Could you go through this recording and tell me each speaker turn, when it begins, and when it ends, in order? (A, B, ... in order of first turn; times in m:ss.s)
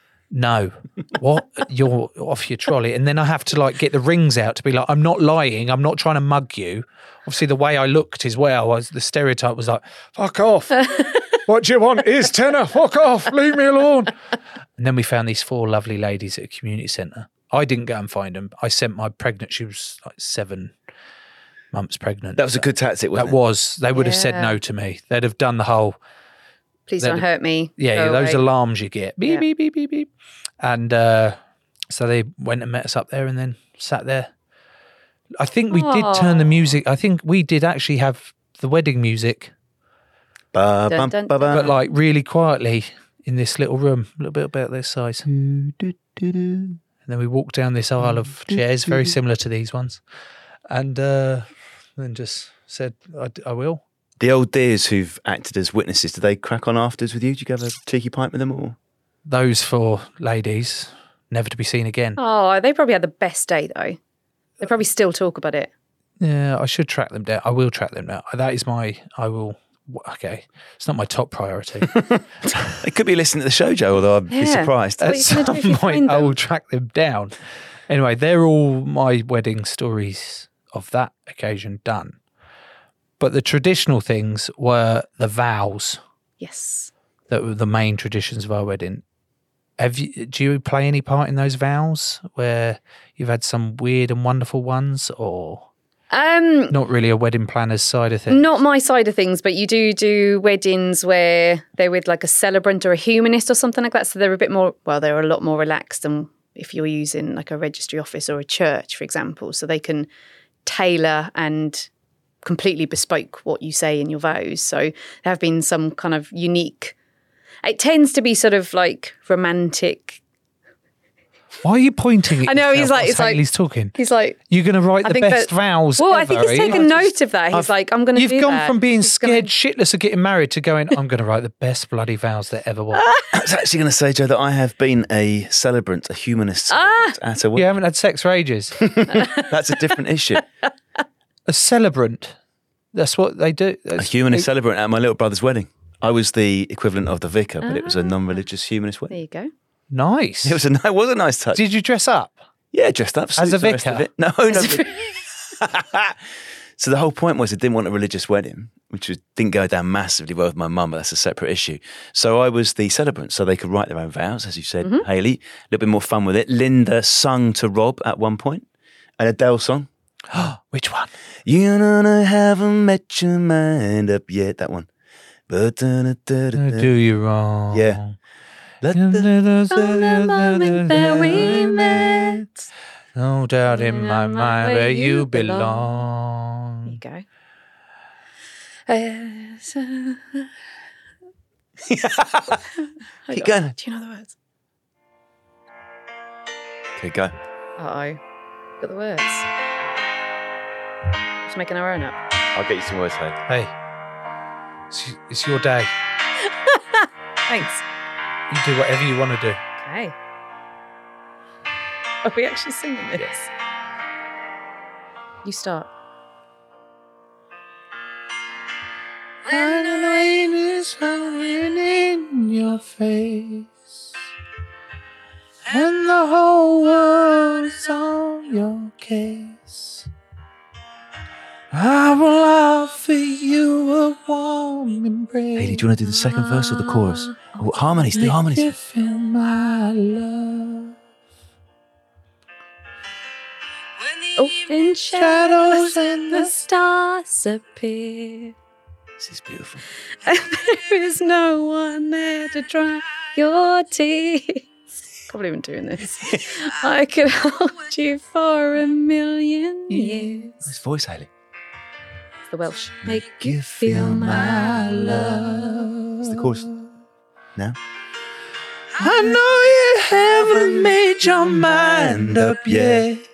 0:00.3-0:14.1 A
0:14.8-0:20.8 A
0:21.7-0:26.0 A
0:22.4-0:23.4 B
0:23.9-0:24.6 C
0:26.9-0:28.4 C
0:27.0-0:27.3 A
0:27.8-0:30.1 A
0:30.6-0:31.4 A
0:31.9-0:34.3 A
0:35.4-0:39.5 A
0:35.7-0:36.6 C
0:40.5-0:41.7 B
0:40.9-0:41.7 C
0:41.5-0:45.3 A
0:45.3-0:46.8 B
0:47.1-0:50.0 A
0:48.0-0:49.2 B
0:50.7-0:53.8 A
0:54.2-0:58.8 B
0:59.2-1:02.2 A
1:02.2-1:04.0 C
1:04.6-1:05.7 C
1:06.2-1:12.0 A
1:12.6-1:15.2 B
1:14.3-1:16.4 C
1:15.0-1:17.4 A
1:17.9-1:22.2 A
1:23.2-1:26.0 A
1:26.4-1:26.9 C
1:27.3-1:29.0 A
1:29.8-1:35.7 A
1:36.1-1:36.8 C
1:36.7-1:38.5 A
1:38.3-1:50.1 C
1:50.6-1:51.9 C
1:52.4-1:57.0 C
1:57.6-2:00.2 C
2:01.6-2:04.0 A
2:02.4-2:03.4 C
2:04.0-2:04.4 C
2:04.5-2:13.0 A
2:05.0-2:09.5 C
2:13.0-2:13.3 C
2:13.3-2:17.7 B
2:16.7-2:17.2 C
2:17.6-2:18.8 A
2:18.8-2:20.4 B
2:19.1-2:19.5 C
2:21.5-2:22.4 A
2:22.9-2:24.5 A
2:24.0-2:29.1 B
2:27.6-2:28.4 C
2:29.1-2:29.5 C
2:29.9-2:30.6 A
2:30.4-2:31.6 B
2:31.5-2:32.4 A
2:32.7-2:35.0 B
2:33.4-2:34.1 A
2:34.5-2:35.0 C
2:35.6-2:36.2 B
2:36.8-2:48.6 B
2:49.2-2:49.9 B
2:50.3-2:51.1 A
2:51.5-2:54.9 B
2:55.5-2:56.9 B
2:56.6-2:58.2 A
2:57.7-2:58.0 B
2:58.8-2:59.3 B
2:58.9-3:02.4 A
2:59.7-3:02.7 C
3:00.9-3:01.5 B
3:03.2-3:07.0 A
3:03.7-3:05.9 C
3:06.9-3:07.2 C
3:08.9-3:10.5 C
3:11.9-3:12.6 B
3:13.3-3:14.3 C
3:13.3-3:13.8 B
3:17.0-3:17.3 B
3:17.8-3:18.2 C
3:18.8-3:19.5 C
3:21.4-3:22.2 C
3:22.6-3:23.4 B
3:23.5-3:23.7 A
3:24.9-3:25.9 A
3:26.7-3:27.8 C
3:28.5-3:29.6 A
3:29.8-3:30.1 C
3:32.2-3:33.5 C
3:35.4-3:35.9 C
3:39.4-3:43.9 A
3:45.7-3:50.1 A
3:51.7-3:55.9 A
3:55.6-3:58.7 B
3:58.1-4:01.0 A
4:04.4-4:08.6 C
4:05.1-4:06.5 A
4:09.2-4:09.8 B
4:10.2-4:14.7 C
4:15.3-4:20.6 C
4:19.9-4:20.5 A
4:20.6-4:21.3 B
4:22.5-4:24.7 C
4:23.2-4:25.4 B
4:24.2-4:26.7 A
4:26.2-4:26.7 B
4:29.0-4:33.2 A
4:30.3-4:33.1 B